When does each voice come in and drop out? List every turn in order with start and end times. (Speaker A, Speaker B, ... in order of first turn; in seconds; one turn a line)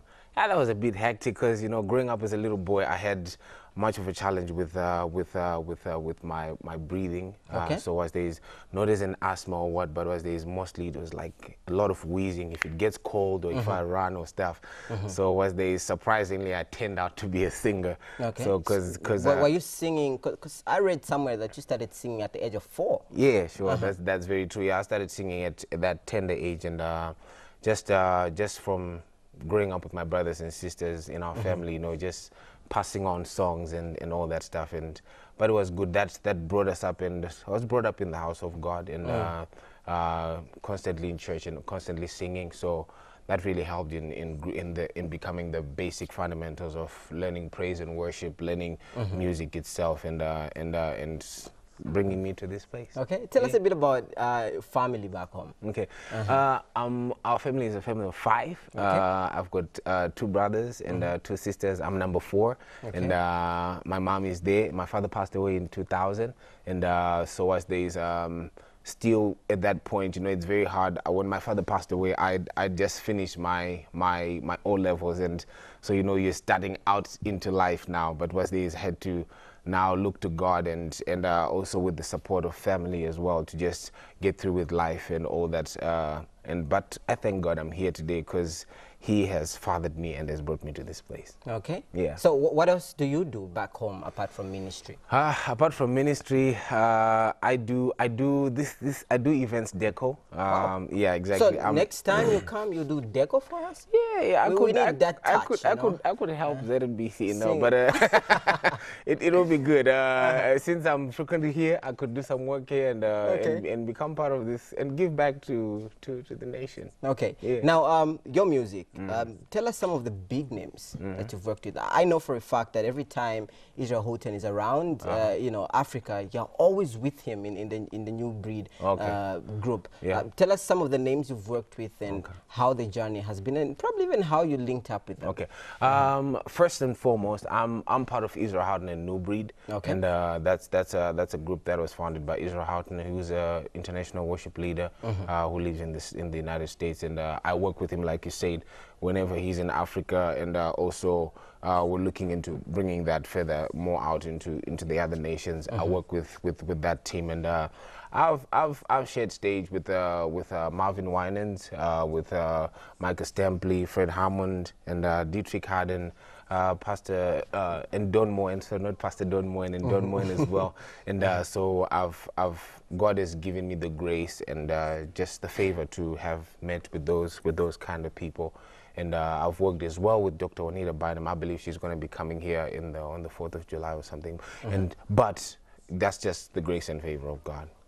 Speaker A: 0.3-19.5
Speaker B: 7.5-7.8
Speaker B: 13.5-13.8
Speaker B: 14.9-15.1
Speaker B: 18.2-23.1
Speaker A: 23.1-53.6
Speaker B: 23.6-23.9
Speaker B: 31.4-31.6
Speaker B: 39.0-39.3
Speaker B: 53.0-55.6
Speaker A: 55.6-91.4
Speaker B: 56.1-56.4
Speaker B: 58.8-59.0
Speaker B: 62.8-63.1
Speaker B: 91.5-95.0
Speaker A: 91.9-92.2
Speaker A: 95.1-102.4
Speaker B: 101.3-103.9
Speaker A: 103.9-117.7
Speaker B: 104.4-106.6
Speaker B: 107.3-108.8
Speaker B: 113.2-113.6
Speaker B: 117.0-136.0
Speaker A: 121.0-121.3
Speaker A: 125.0-125.3
Speaker A: 128.8-129.2
Speaker A: 135.2-187.7
Speaker B: 139.7-140.0
Speaker B: 170.2-170.4